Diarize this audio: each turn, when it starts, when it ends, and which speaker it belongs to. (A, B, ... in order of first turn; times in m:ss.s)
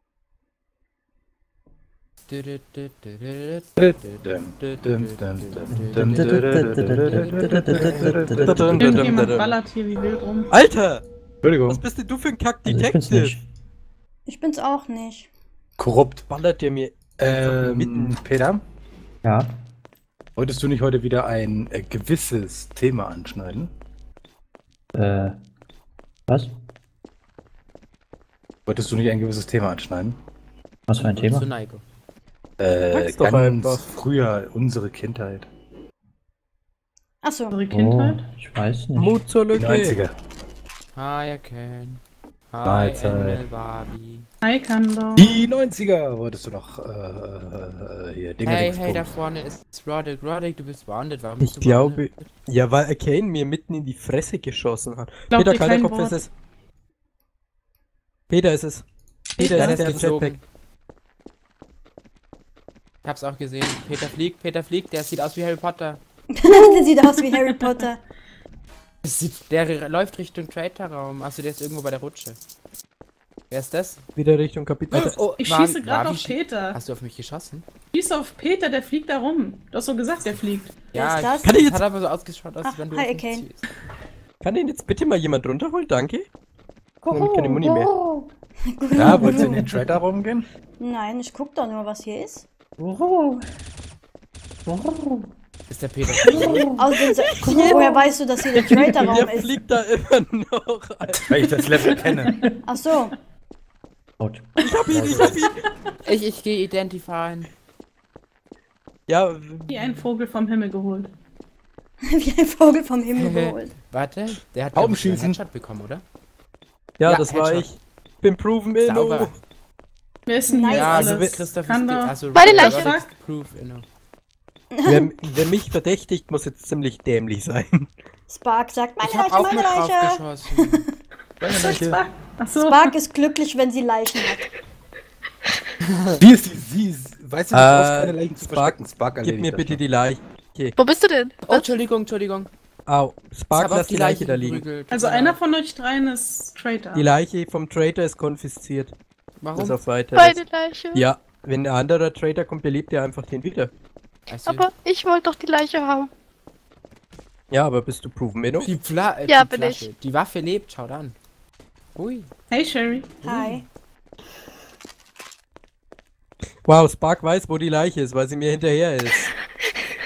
0:02.3-0:07.8 A
0:03.8-0:09.0 B
0:05.7-0:09.1 C
0:07.7-0:09.6 D
0:08.8-0:10.5 E
0:10.5-0:11.0 D
0:11.4-0:11.8 B
0:11.7-0:13.4 D
0:12.7-0:13.4 C
0:14.3-0:15.3 F
0:15.8-0:16.2 B
0:16.3-0:18.2 D
0:17.2-0:18.6 B
0:19.2-0:19.5 C
0:20.4-0:23.7 B
0:24.9-0:25.4 C
0:26.3-0:26.6 C
0:28.7-0:30.2 B
0:30.9-0:31.5 C
0:31.0-0:31.8 A
0:32.6-0:35.5 B
0:32.9-0:33.9 D
0:37.2-0:37.6 F
0:37.5-0:38.2 E
0:37.7-0:39.2 C
0:39.0-0:40.0 D
0:39.5-0:40.1 B
0:41.0-0:44.3 A
0:42.6-0:43.4 B
0:44.4-0:45.4 E
0:45.2-0:49.2 B
0:48.4-0:52.1 A
0:51.4-0:56.3 D
0:55.3-0:56.2 E
0:58.3-0:58.8 D
0:59.4-1:00.4 D
0:59.4-1:00.4 A
0:59.4-1:00.0 E
1:03.0-1:06.0 A
1:06.4-1:08.0 F
1:06.5-1:07.8 E
1:09.0-1:12.4 A
1:13.5-1:14.0 A
1:14.2-1:15.2 D
1:15.2-1:17.6 A
1:15.4-1:16.8 E
1:17.9-1:20.8 E
1:20.9-1:23.6 A
1:21.0-1:21.5 F
1:21.4-1:21.8 D
1:22.6-1:23.5 F
1:24.4-1:26.3 D
1:27.0-1:28.3 C
1:27.1-1:27.9 D
1:28.7-1:29.7 F
1:29.0-1:30.5 B
1:29.0-1:29.8 C
1:30.8-1:32.4 F
1:32.8-1:33.5 C
1:34.7-1:35.3 C
1:35.7-1:36.7 A
1:36.2-1:36.9 C
1:36.8-1:39.5 F
1:37.2-1:37.8 D
1:37.4-1:38.0 C
1:38.6-1:39.3 C
1:38.8-1:41.3 D
1:41.3-1:42.5 B
1:42.6-1:43.2 F
1:44.2-1:44.5 C
1:44.6-1:45.6 D
1:44.9-1:45.4 B
1:46.0-1:47.5 A
1:49.1-1:49.7 D
1:49.7-1:51.1 E
1:52.1-1:53.7 F
1:53.2-1:56.0 A
1:54.7-1:55.4 B
1:57.0-1:59.3 D
1:57.0-1:57.7 A
1:58.8-1:59.4 A
2:00.3-2:03.1 E
2:00.4-2:01.2 F
2:00.7-2:03.8 A
2:01.0-2:01.4 D
2:02.4-2:02.9 G
2:04.7-2:05.1 F
2:04.8-2:07.9 D
2:08.3-2:10.8 F
2:09.0-2:10.8 A
2:11.4-2:12.0 B
2:11.4-2:13.0 E
2:12.6-2:14.5 F
2:16.2-2:19.8 B
2:17.5-2:20.8 D
2:20.8-2:21.7 G
2:21.4-2:22.5 A
2:22.9-2:24.6 D
2:23.5-2:25.4 A
2:24.9-2:27.1 E
2:26.9-2:28.9 D
2:29.4-2:29.8 A
2:29.6-2:30.4 D
2:30.2-2:31.1 G
2:30.9-2:33.7 D
2:34.3-2:34.7 A
2:34.5-2:36.1 G
2:37.5-2:38.7 D
2:38.6-2:41.2 A
2:39.3-2:39.9 G
2:42.0-2:42.3 A
2:42.5-2:43.3 E
2:43.2-2:43.6 F
2:46.7-2:49.3 D